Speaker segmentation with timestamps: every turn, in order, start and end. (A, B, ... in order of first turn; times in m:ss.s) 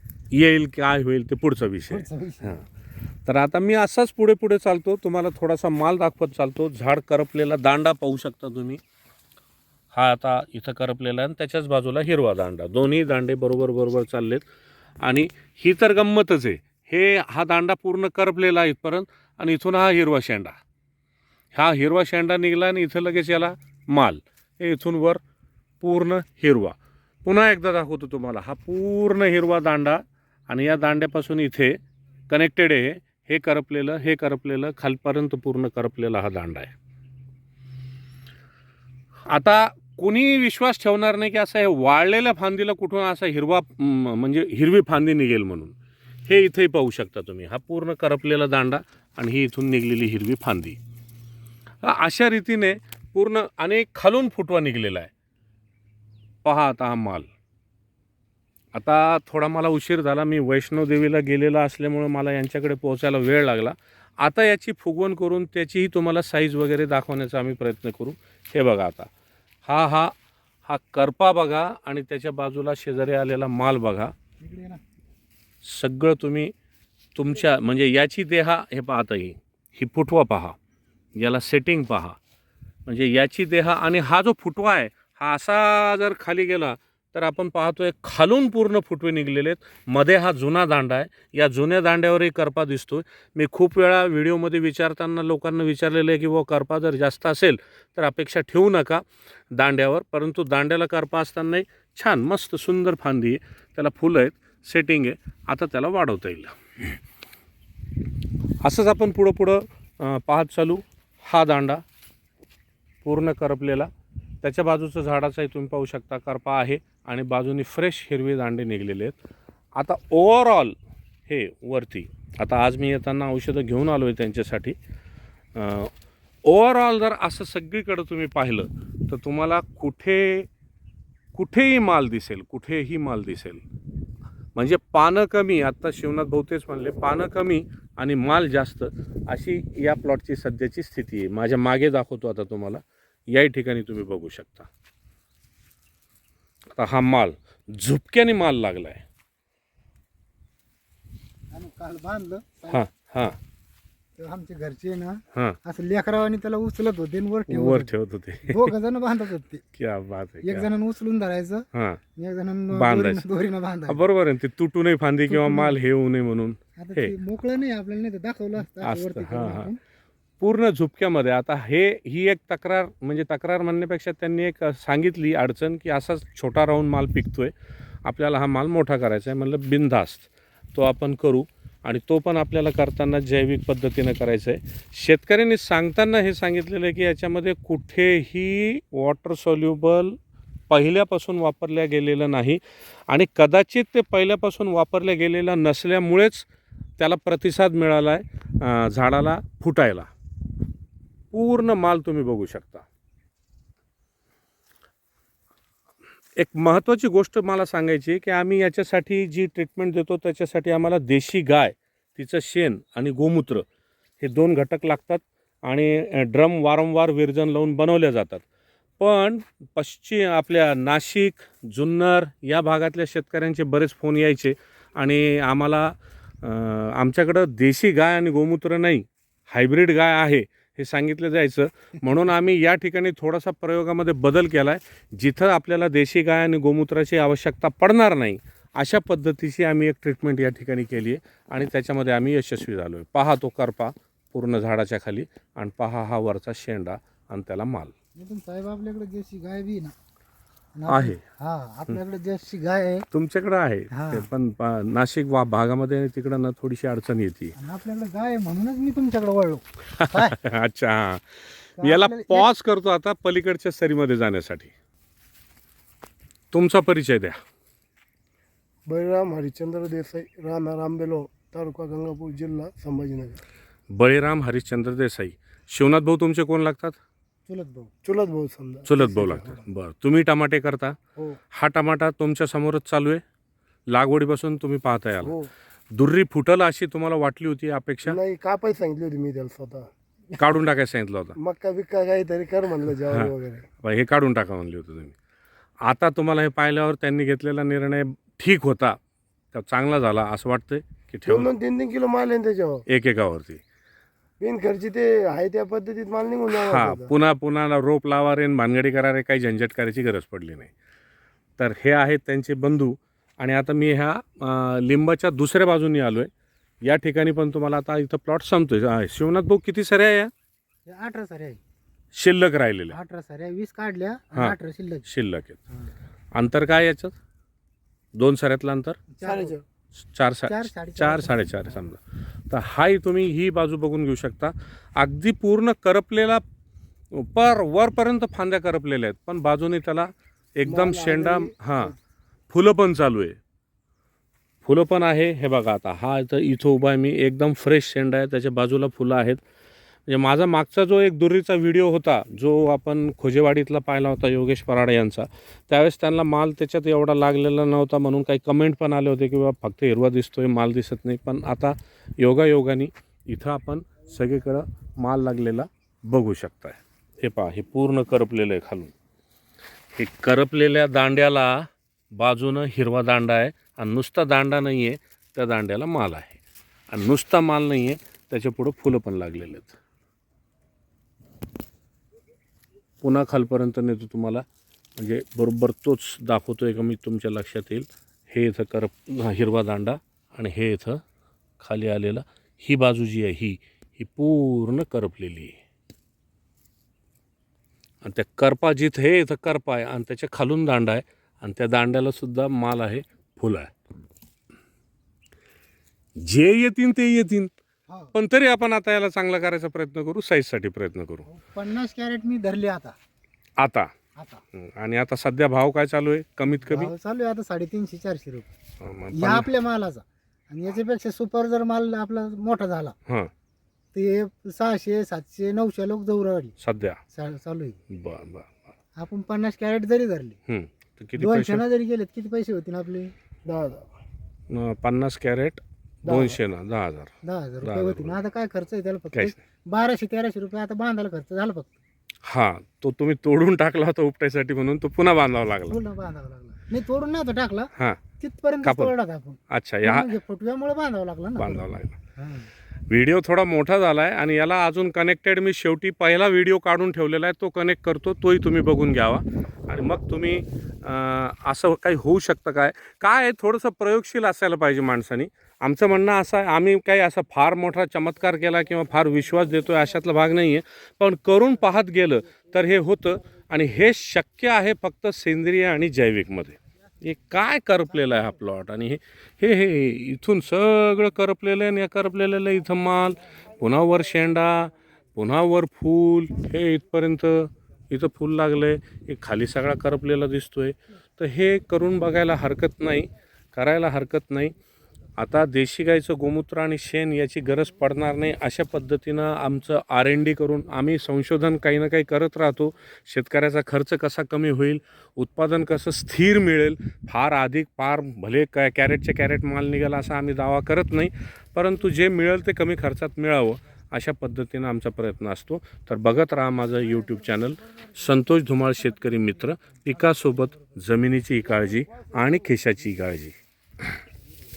0:00.3-0:02.6 A
0:01.9-0:02.6 B
0:03.3-0:08.8 A
0:09.9-0:14.5 A
0:15.0-0:20.6 A
0:21.5-0:25.2 A
0:25.8-0:36.7 A
0:39.3-0:50.8 A
0:51.8-0:55.1 A
0:56.4-0:57.3 A
0:58.7-1:09.1 A
1:09.6-1:10.1 A
1:10.7-1:14.1 A
1:14.4-1:14.8 B
1:15.6-1:16.5 A
1:17.2-1:20.6 A
1:21.2-1:22.2 A
1:22.9-1:46.6 A
1:48.6-1:51.8 A
1:53.0-1:53.9 A
1:54.4-1:59.2 A
1:59.8-2:04.8 A
2:05.6-2:05.9 A
2:06.4-2:10.5 A
2:11.3-2:13.6 A
2:14.6-2:24.7 A
2:26.8-2:29.0 A
2:31.5-2:32.9 B
2:32.7-2:33.4 A
2:34.2-2:39.6 B
2:37.5-2:38.7 A
2:39.8-2:40.7 A
2:40.4-2:44.0 B
2:41.7-2:42.0 A
2:42.7-2:43.3 A
2:43.9-2:47.1 A
2:45.3-2:45.8 B
2:46.8-2:49.8 B
2:48.8-2:49.7 A
2:50.4-2:57.5 A
2:58.0-3:10.2 A
3:10.7-3:16.5 A
3:17.0-3:20.1 A
3:21.3-3:22.9 A
3:26.4-3:33.6 A
3:34.2-3:38.4 A
3:39.0-4:07.9 A
4:08.2-4:10.0 B
4:10.8-4:13.1 B
4:10.9-4:11.2 A
4:13.1-4:17.6 A
4:13.9-4:14.3 B
4:17.6-4:20.4 B
4:19.9-4:24.7 A
4:21.8-4:22.5 B
4:26.5-4:27.4 A
4:28.9-4:33.4 C
4:33.9-4:37.0 A
4:37.5-4:37.9 B
4:38.0-4:39.6 C
4:38.8-4:41.0 A
4:41.5-4:43.2 A
4:43.9-4:45.4 A
4:45.2-4:45.5 C
4:45.9-4:48.2 A
4:48.0-4:49.9 C
4:50.3-4:51.4 A
4:51.4-4:53.7 C
4:53.1-4:55.2 A
4:55.8-4:59.0 A
4:59.5-5:01.5 A
5:01.3-5:02.8 C
5:02.9-5:03.6 A
5:04.4-5:07.1 C
5:06.5-5:10.7 A
5:11.6-5:16.3 A
5:16.8-5:20.3 A
5:20.9-5:21.6 B
5:22.1-5:23.0 A
5:22.9-5:25.1 B
5:24.3-5:25.6 A
5:26.3-5:27.2 A
5:28.2-5:29.0 A
5:29.1-5:29.6 B
5:29.2-5:29.6 C
5:30.0-5:36.4 A
5:30.5-5:31.8 B
5:37.1-5:41.9 A
5:40.6-5:41.9 C
5:42.5-5:43.4 A
5:44.6-5:49.4 A
5:50.1-6:08.9 A
6:10.0-6:19.8 A
6:23.0-6:24.4 A
6:25.0-6:31.0 A
6:31.6-6:35.6 A
6:38.0-6:43.7 A
6:46.2-6:47.5 A
6:47.9-6:48.1 B
6:48.1-6:51.3 A
6:51.3-6:53.0 B
6:53.6-6:53.9 A
6:54.2-6:54.4 B
6:54.5-6:56.9 A
6:56.6-6:58.5 B
6:58.8-6:59.5 A
6:59.1-7:03.0 B
7:03.9-7:06.6 B
7:06.6-7:07.0 A
7:07.1-7:07.8 B
7:07.9-7:08.6 A
7:09.0-7:10.4 B
7:10.5-7:11.6 A
7:11.2-7:13.1 B
7:13.4-7:13.9 C
7:14.5-7:18.2 A
7:16.0-7:16.4 C
7:17.2-7:21.8 B
7:22.3-7:25.8 A
7:25.7-7:31.7 B
7:28.6-7:28.9 A
7:29.5-7:30.1 A
7:31.4-7:32.0 A
7:32.2-7:32.5 B
7:32.9-8:14.6 A
8:15.2-8:43.4 A